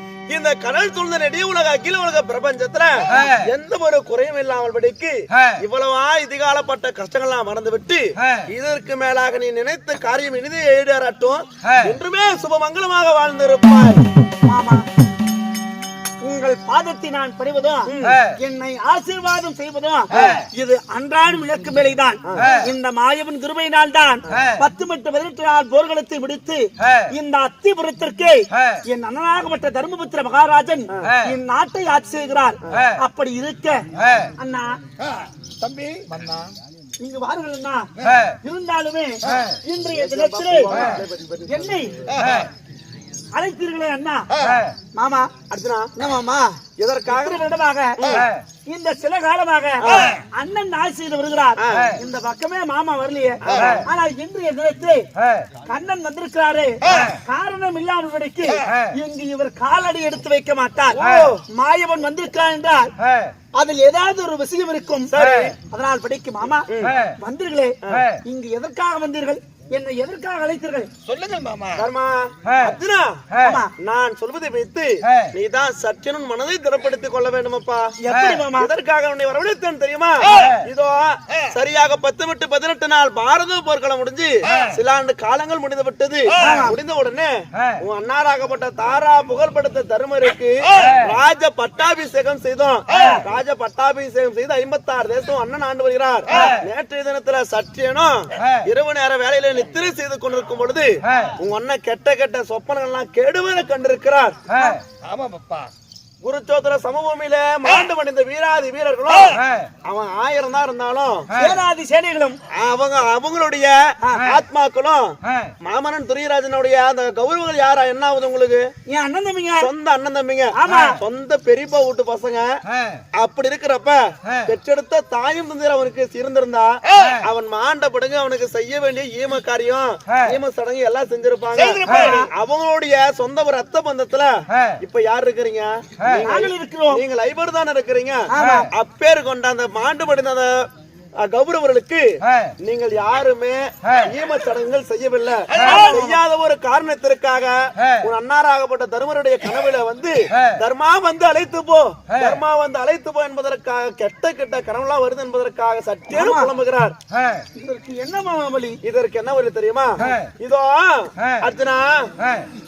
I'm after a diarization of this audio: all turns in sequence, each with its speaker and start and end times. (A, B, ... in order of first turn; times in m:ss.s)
0:00.3-0:14.0 A
0:14.5-0:14.9 B
0:16.2-0:33.8 B
0:17.9-0:18.3 A
0:20.1-0:20.4 A
0:22.3-0:22.6 A
0:32.7-0:32.9 A
0:34.4-0:34.8 B
0:35.0-0:36.4 C
0:37.0-0:37.9 B
0:38.4-0:40.8 B
0:40.0-0:42.4 A
0:41.5-0:41.9 B
0:42.1-0:42.5 C
0:43.3-0:44.3 B
0:44.3-0:44.7 C
0:45.0-0:45.3 B
0:45.5-0:45.9 A
0:46.0-0:48.0 B
0:46.8-0:47.4 A
0:48.0-0:48.3 A
0:48.7-0:55.1 B
0:49.8-0:50.2 A
0:51.6-0:52.0 A
0:53.4-0:53.9 A
0:55.7-1:02.9 B
0:56.9-0:57.1 C
1:00.9-1:01.4 A
1:03.6-1:05.1 B
1:05.1-1:05.6 A
1:05.7-1:10.9 B
1:06.7-1:07.0 A
1:07.8-1:08.1 A
1:11.1-1:11.9 C
1:11.8-1:13.3 A
1:13.4-1:13.7 B
1:13.8-1:17.9 A
1:18.0-1:18.7 B
1:18.6-1:44.4 A
1:20.2-1:20.6 C
1:24.5-1:24.8 C
1:26.3-1:26.7 C
1:26.4-1:26.8 B
1:30.7-1:31.0 C
1:32.9-1:33.2 B
1:44.5-1:44.8 B
1:45.0-1:45.7 C
1:46.2-1:51.3 A
1:51.3-1:52.4 B
1:52.5-1:58.7 A
1:54.0-1:54.3 B
1:58.9-1:59.7 B
1:59.6-2:02.6 A
2:00.6-2:01.0 B
2:03.2-2:18.2 A
2:06.9-2:07.2 C
2:11.6-2:12.2 C
2:11.9-2:12.3 B
2:16.3-2:17.0 B
2:18.3-2:18.7 B
2:18.7-2:20.7 A
2:21.2-2:22.1 A
2:22.6-2:37.0 A
2:25.5-2:25.8 C
2:25.6-2:26.2 B
2:36.1-2:36.5 B
2:37.6-2:38.8 B
2:38.8-2:42.1 A